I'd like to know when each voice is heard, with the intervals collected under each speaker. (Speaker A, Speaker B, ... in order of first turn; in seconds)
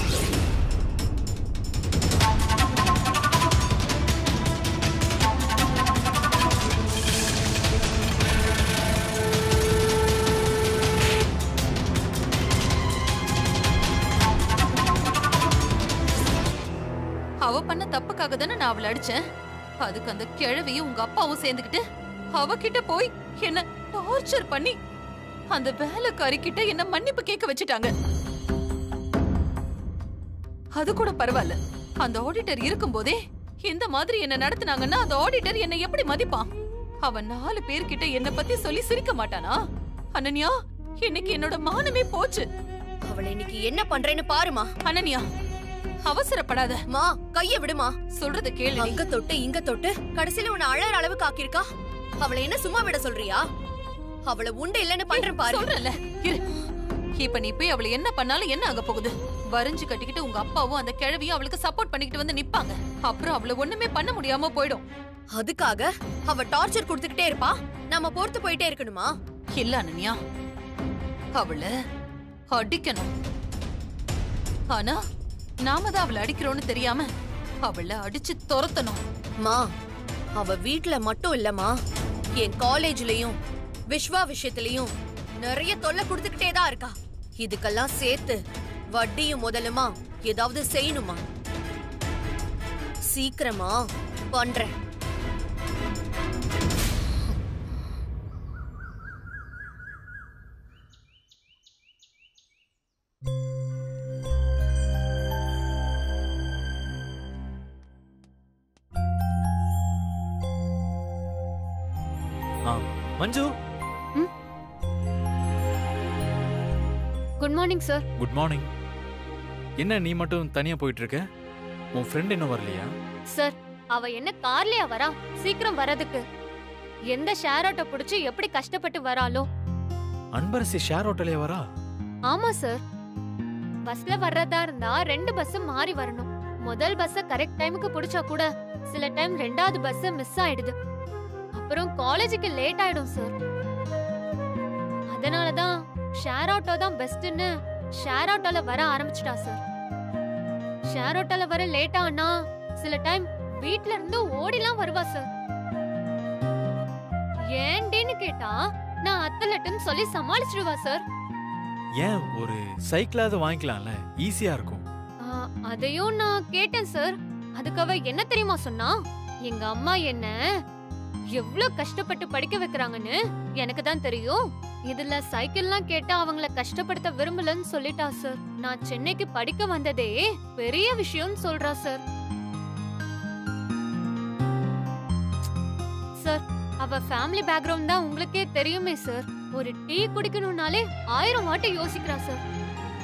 Speaker A: 17.4-19.2, 19.8-21.8, 22.4-24.7, 25.5-27.9, 30.8-36.5, 37.0-39.5, 40.1-42.5, 44.9-45.2, 46.0-46.8, 48.1-49.0, 55.1-56.4, 57.2-64.8, 69.6-70.2, 71.4-71.7, 72.5-73.1, 74.7-75.0, 75.6-77.1, 77.6-79.0
Speaker B: 43.0-44.7, 46.9-48.0, 48.8-51.6, 52.2-53.4, 54.3-55.7, 65.3-69.1, 80.3-81.7, 82.3-83.4, 83.9-84.9, 85.4-88.4, 88.9-91.2, 93.0-94.7
Speaker C: 112.7-113.5, 118.2-118.7, 119.8-121.2, 121.9-122.9, 130.3-131.6, 162.0-164.8
Speaker D: 117.4-118.0, 123.3-126.2, 127.1-129.4, 132.3-132.8, 133.8-140.7, 141.6-143.3, 145.1-147.5, 148.0-149.6, 150.9-155.2, 157.5-161.0, 165.2-170.3, 171.3-182.0, 186.2-192.4